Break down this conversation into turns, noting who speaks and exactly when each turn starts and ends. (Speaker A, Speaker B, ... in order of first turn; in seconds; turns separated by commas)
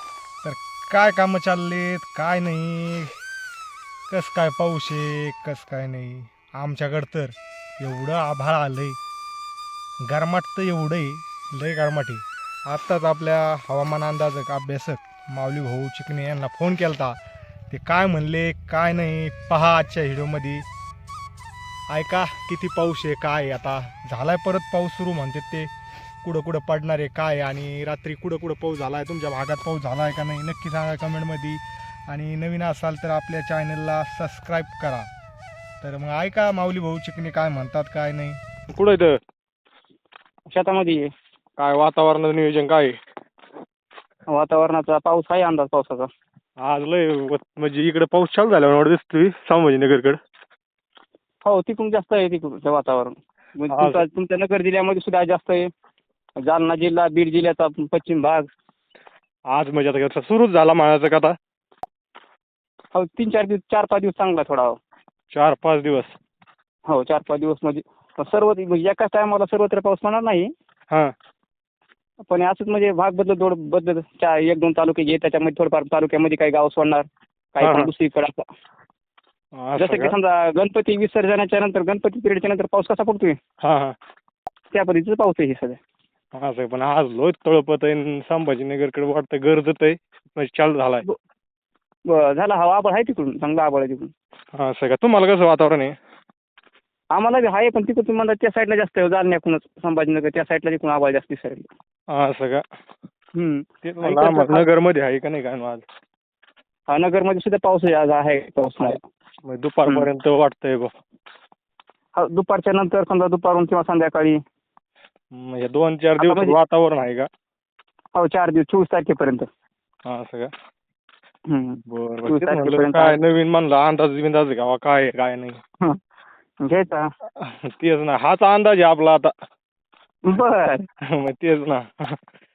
Speaker A: 0.4-3.1, Speaker A: 4.1-9.0, Speaker A: 10.1-17.2, Speaker A: 17.7-20.6, Speaker A: 21.9-25.7, Speaker A: 26.2-35.1, Speaker A: 35.8-38.4, Speaker B: 38.7-39.2, Speaker C: 40.5-41.1, Speaker B: 41.6-43.0, Speaker C: 44.3-46.1, Speaker B: 46.6-50.2, Speaker C: 51.4-55.7, Speaker B: 53.7-54.0, Speaker C: 56.4-58.5, Speaker B: 59.5-61.3, Speaker C: 62.9-64.8, Speaker B: 65.3-66.1, Speaker C: 66.9-70.5, Speaker C: 72.3-78.4, Speaker B: 77.6-77.9, Speaker B: 79.5-80.1, Speaker C: 79.8-83.4, Speaker B: 83.6-83.9, Speaker C: 84.7-85.8, Speaker B: 86.3-91.0, Speaker C: 92.1-94.1, Speaker B: 94.5-95.9, Speaker C: 97.1-101.7, Speaker B: 102.1-102.6, Speaker C: 103.3-104.6, Speaker B: 103.8-105.8, Speaker C: 106.9-109.0, Speaker B: 108.8-110.9, Speaker C: 112.2-114.4, Speaker B: 115.3-117.3, Speaker C: 116.2-116.5, Speaker C: 118.1-119.5, Speaker B: 120.1-120.5, Speaker C: 121.5-123.2, Speaker B: 121.9-125.6, Speaker C: 126.6-127.1, Speaker B: 127.4-129.3, Speaker C: 130.2-130.8, Speaker B: 131.1-132.2